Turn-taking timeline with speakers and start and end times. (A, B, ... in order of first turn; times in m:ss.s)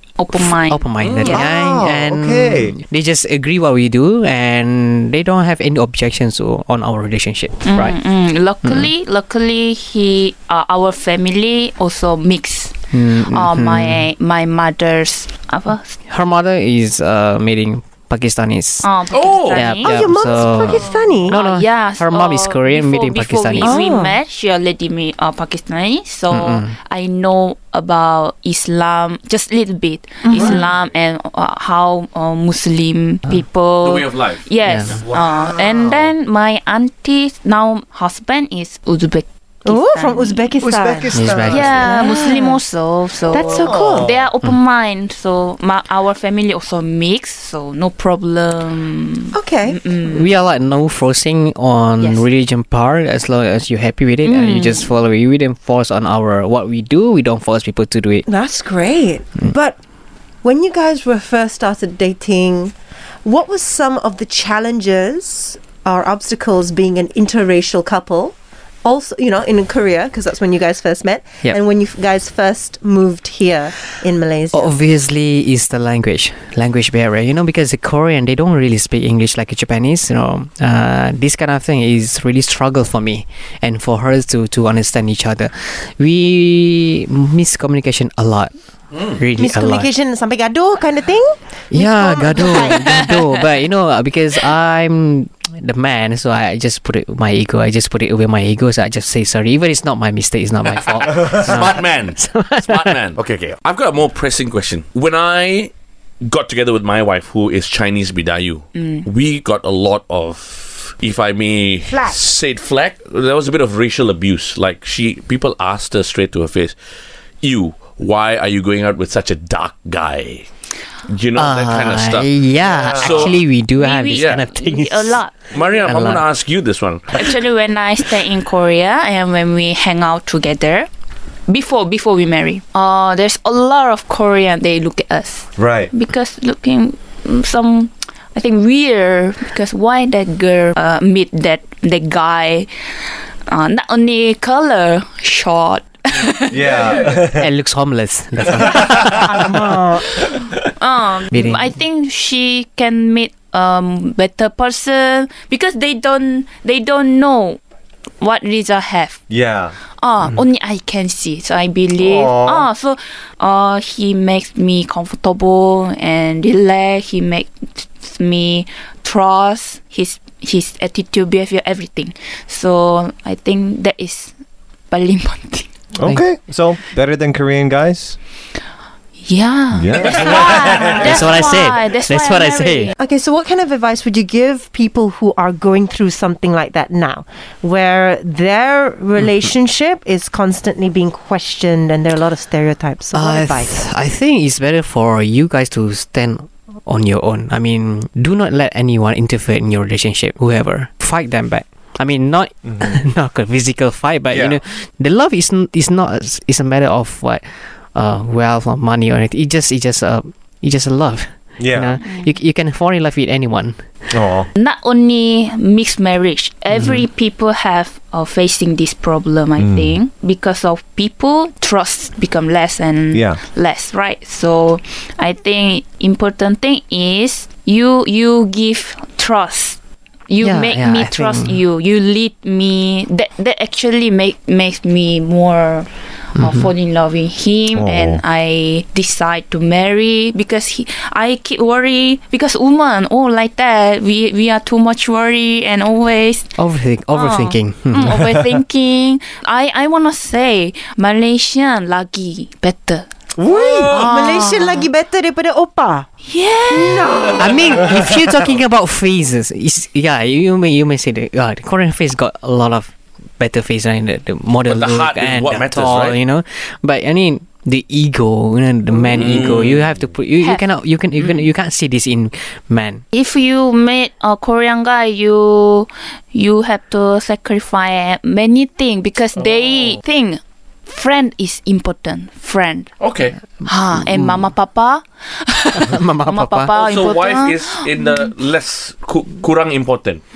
0:00.2-0:01.4 A
0:00.3-0:08.0 B
0:01.0-0:01.3 C
0:01.2-0:02.7 D
0:07.6-0:16.0 A
0:12.9-0:14.1 B
0:16.1-0:18.9 B
0:18.8-0:19.9 A
0:19.1-0:19.6 C
0:19.5-0:23.7 B
0:19.8-0:21.3 E
0:21.3-0:40.4 A
0:23.6-0:24.2 E
0:26.3-0:26.7 B
0:30.3-0:30.6 E
0:33.8-0:34.4 C
0:34.6-0:35.0 B
0:35.0-0:36.1 D
0:39.6-0:42.6 E
0:40.6-0:41.9 D
0:41.1-0:41.7 B
0:41.5-0:50.3 A
0:43.3-0:44.1 E
0:43.3-0:44.2 D
0:49.3-0:49.8 E
0:50.0-0:58.2 B
0:52.0-0:52.3 A
0:54.2-0:54.9 A
0:58.2-0:59.8 E
1:00.4-1:02.7 E
1:03.2-1:14.7 E
1:14.5-1:28.5 B
1:29.0-1:29.9 B
1:29.3-1:33.0 E
1:31.7-1:43.0 B
1:41.0-1:56.8 C
1:41.1-1:41.6 D
1:48.8-1:49.0 A
1:51.9-1:52.2 E
1:57.4-2:00.5 C
2:01.0-2:02.3 C
2:01.4-2:05.2 B
2:02.8-2:03.4 C
2:03.3-2:05.7 A
2:04.1-2:04.4 C
2:05.5-2:07.3 C
2:05.8-2:06.2 B
2:07.1-2:10.9 A
2:11.5-2:27.1 A
2:15.6-2:15.9 D
2:26.5-2:27.4 D
2:27.3-2:29.8 B
2:29.2-2:30.0 E
2:30.2-2:37.6 A
2:31.3-2:31.7 B
2:38.2-2:39.2 A
2:39.3-2:39.7 D
2:40.0-2:54.3 A
2:42.0-2:42.6 D
2:54.9-2:55.7 A
2:56.0-2:58.2 D
2:59.2-3:02.9 A
2:59.7-3:01.0 D
3:01.0-3:02.9 B
3:03.0-3:13.8 E
3:13.1-3:33.9 B
3:24.3-3:24.6 D
3:31.6-3:31.9 D
3:32.0-3:32.3 A
3:34.1-3:34.5 D
3:34.5-4:06.5 A
3:39.6-3:40.0 D
3:43.1-3:43.4 D
3:50.4-3:51.6 B
3:56.4-3:56.7 B
3:57.7-3:58.2 D
4:06.6-4:08.2 B
4:07.1-4:13.0 A
4:13.4-4:14.0 D
4:13.4-4:16.1 E
4:13.8-4:14.8 A
4:16.2-4:17.1 A
4:16.7-4:18.1 E
4:17.4-4:33.0 B
4:24.6-4:26.2 C
4:29.1-4:29.8 C
4:30.4-4:30.7 A
4:33.1-4:42.9 A
4:43.0-4:43.4 C
4:43.6-4:48.2 A
4:43.9-4:44.5 B
4:45.7-4:46.7 B
4:46.7-4:50.2 C